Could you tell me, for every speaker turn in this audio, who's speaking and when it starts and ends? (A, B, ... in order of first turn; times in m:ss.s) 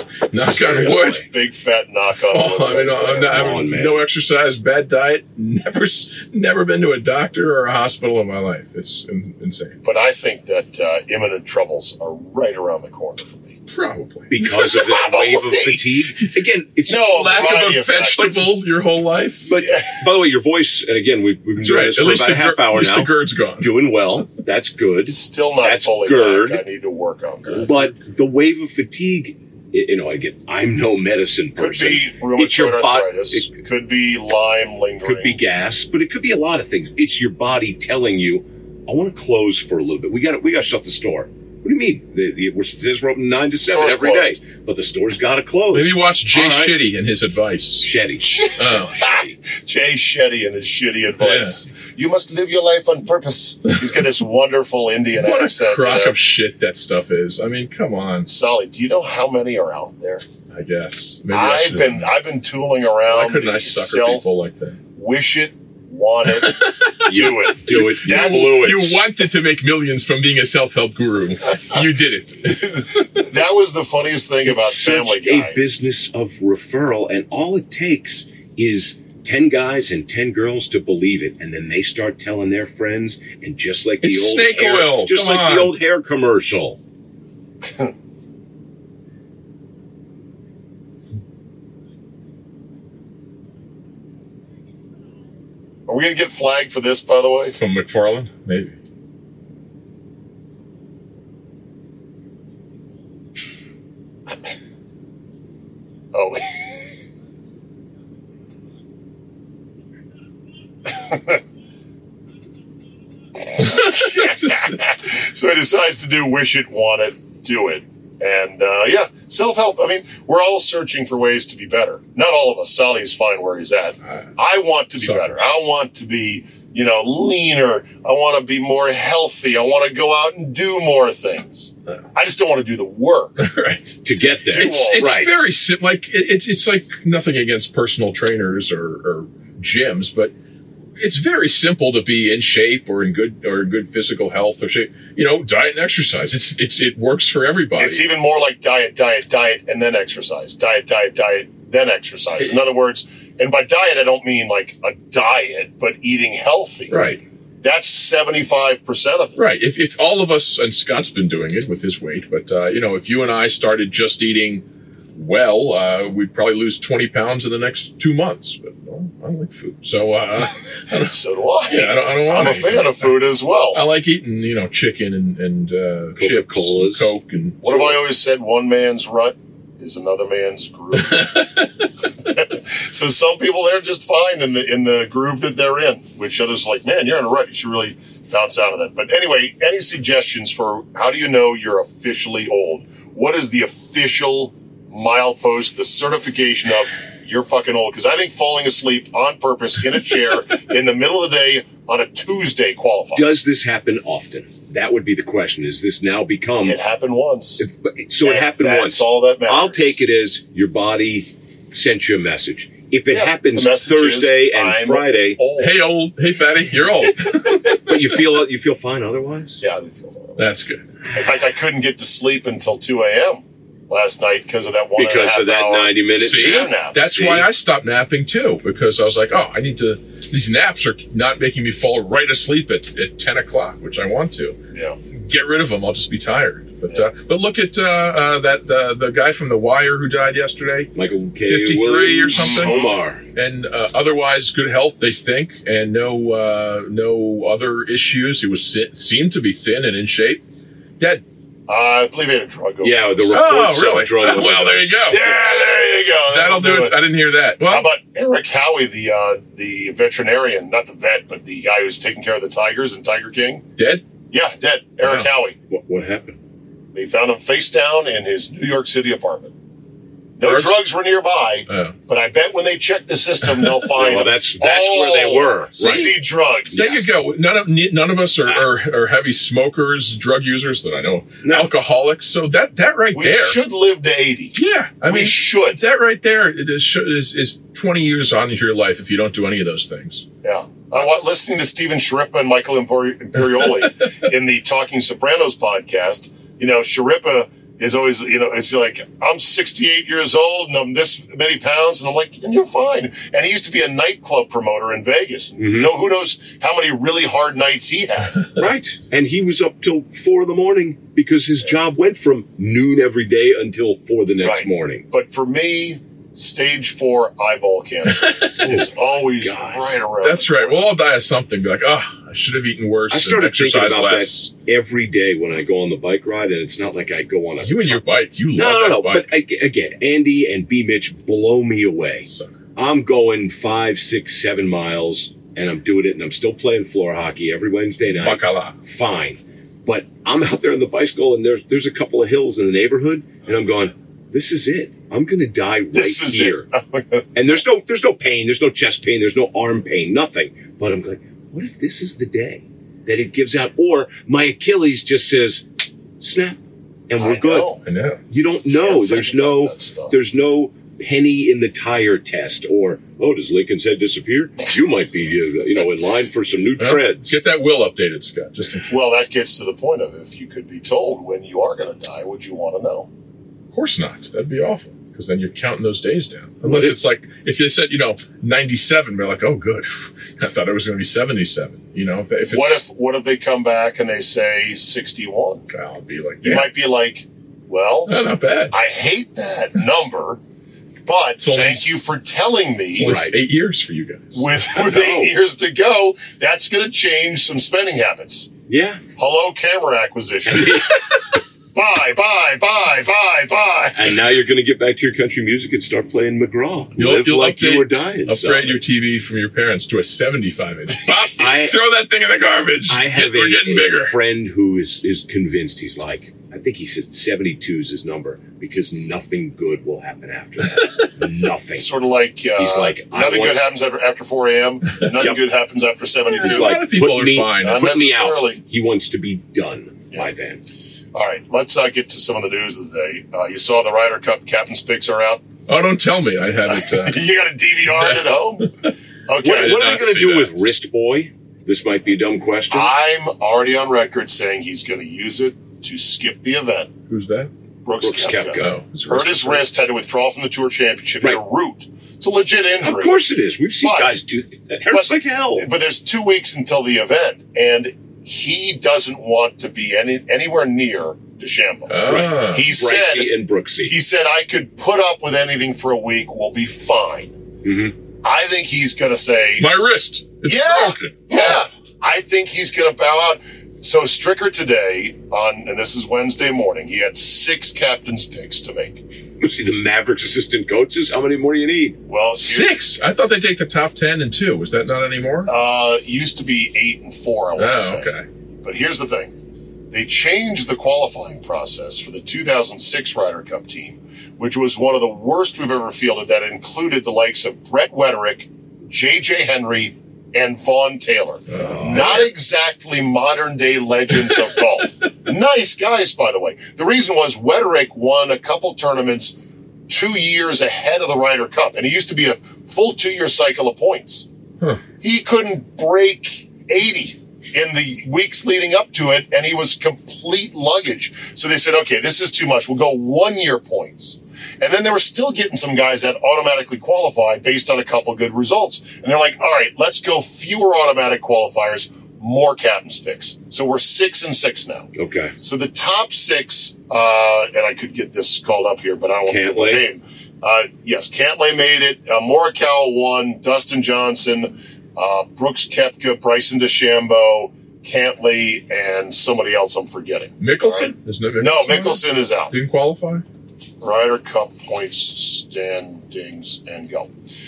0:00.3-0:01.2 A
0:00.4-0:01.2 B
0:01.2-0:03.5 C
0:02.2-0:09.8 A
0:03.3-0:04.0 B
0:09.8-0:13.6 C
0:13.7-0:14.4 A
0:14.3-0:17.2 B
0:14.4-0:15.8 C
0:16.9-0:18.6 C
0:17.1-0:19.5 A
0:19.5-0:26.6 B
0:19.6-0:20.1 C
0:21.6-0:23.7 A
0:25.1-0:27.7 C
0:27.6-0:33.5 B
0:31.6-0:35.4 C
0:35.0-0:46.8 B
0:43.6-0:44.4 C
0:45.7-0:47.9 A
0:47.8-0:49.4 B
0:48.2-0:56.2 C
0:48.6-0:49.0 A
0:51.2-0:51.6 A
0:55.2-0:58.3 A
0:58.3-1:00.2 C
1:00.5-1:02.1 A
1:01.3-1:04.3 C
1:03.1-1:04.8 A
1:05.0-1:08.8 C
1:06.3-1:13.2 A
1:07.1-1:09.0 B
1:12.5-1:15.6 C
1:14.4-1:26.8 B
1:24.0-1:25.8 A
1:27.6-1:27.9 C
1:35.9-1:37.6 C
1:37.6-1:38.8 A
1:46.1-1:46.7 C
1:50.9-1:51.4 C
1:53.4-2:13.4 C
1:53.6-1:54.8 A
2:05.0-2:05.3 A
2:13.4-2:20.3 A
2:14.0-2:15.5 B
2:14.5-2:15.2 C
2:21.0-2:28.1 A
2:27.8-2:37.1 C
2:36.9-2:37.2 A
2:37.6-2:39.4 C
2:39.4-2:44.6 A
2:45.2-2:53.2 A
2:51.0-2:53.8 C
2:53.7-2:58.0 A
2:56.2-2:57.1 B
2:57.6-3:01.5 C
3:01.0-3:01.7 A
3:02.2-3:23.4 C
3:23.2-3:26.8 B
3:26.6-3:27.7 C
3:27.6-3:35.4 B
3:28.2-3:30.0 C
3:33.1-3:35.8 C
3:35.6-3:38.0 A
3:37.8-3:39.6 B
3:39.6-3:40.4 C
3:40.4-3:40.8 A
3:41.1-3:47.0 C
3:45.0-3:47.5 B
3:46.2-3:54.6 A
3:55.2-4:10.4 A
4:01.0-4:03.2 B
4:02.4-4:02.8 C
4:11.7-4:13.4 C
4:12.8-4:15.4 B
4:13.3-4:15.2 A
4:15.1-4:17.0 C
4:16.3-4:17.9 A
4:17.7-4:23.6 C
4:23.8-4:24.0 A
4:24.3-4:25.6 C
4:25.0-4:25.3 A
4:25.7-4:26.4 B
4:26.9-4:29.5 C
4:30.4-4:37.0 C
4:30.4-4:30.8 A
4:31.7-4:32.0 A
4:34.0-4:36.2 B
4:35.8-4:36.1 A
4:36.7-4:37.0 B
4:36.7-4:43.6 A
4:41.4-4:41.7 B
4:43.1-4:45.8 C
4:44.6-4:50.3 A
4:50.4-5:08.5 C
5:05.6-5:05.9 B
5:08.6-5:15.0 B
5:14.4-5:20.8 C
5:18.1-5:18.9 A
5:19.4-5:19.9 B
5:20.2-5:24.5 A
5:23.1-5:28.0 B
5:27.6-5:29.3 A
5:28.6-5:46.7 B
5:32.2-5:32.6 A
5:38.1-5:38.8 A
5:45.9-5:47.6 C
5:47.4-5:55.6 B
5:56.2-5:57.7 B
5:57.2-5:57.8 C
5:57.8-5:58.2 A
5:58.3-6:07.4 B
5:58.7-6:00.2 C
6:06.8-6:08.9 A
6:08.9-6:13.1 C
6:13.7-6:22.8 A
6:16.6-6:17.0 B
6:22.5-6:25.7 C
6:25.7-6:26.7 A
6:26.4-6:28.2 C
6:28.1-6:28.7 A
6:28.7-6:30.4 C
6:31.1-6:33.2 C
6:31.4-6:32.0 A
6:33.0-6:34.4 A
6:33.0-6:33.4 B
6:34.3-6:38.5 C
6:34.7-6:35.4 B
6:38.7-6:39.0 B
6:39.2-6:41.0 C
6:40.5-6:40.9 B
6:41.7-6:44.2 C
6:44.0-6:48.8 B
6:47.0-6:54.2 A
6:51.4-6:51.8 B
6:52.9-7:01.9 B
7:00.8-7:01.1 A
7:01.8-7:06.8 C
7:02.6-7:03.6 B
7:06.3-7:08.0 A
7:06.4-7:10.6 B
7:07.6-7:08.6 C
7:11.1-7:15.4 C
7:15.7-7:17.2 A
7:16.7-7:18.7 C
7:17.8-7:18.9 A
7:19.3-7:19.9 C
7:19.4-7:22.9 B
7:19.4-7:20.7 A
7:22.7-7:26.9 C
7:27.1-7:27.5 A
7:27.8-7:33.2 C
7:28.0-7:28.7 B
7:28.6-7:29.6 A
7:32.8-7:35.7 B
7:33.8-7:34.1 C
7:34.9-7:47.4 C
7:41.9-7:42.7 A
7:42.1-7:44.0 B
7:47.6-7:47.9 B
7:48.2-7:49.7 C
7:49.6-7:51.6 A
7:50.4-7:59.0 C
7:59.4-8:02.0 B
8:02.1-8:02.8 C
8:02.4-8:05.5 A
8:05.5-8:08.1 C
8:07.6-8:08.2 A
8:08.6-8:09.3 C
8:09.9-8:29.4 C
8:21.5-8:22.3 A
8:21.7-8:22.2 B
8:29.9-8:34.3 C
8:35.0-9:12.5 C
8:55.0-8:55.3 B
8:59.3-8:59.9 B
9:10.4-9:13.2 A
9:13.8-9:17.1 C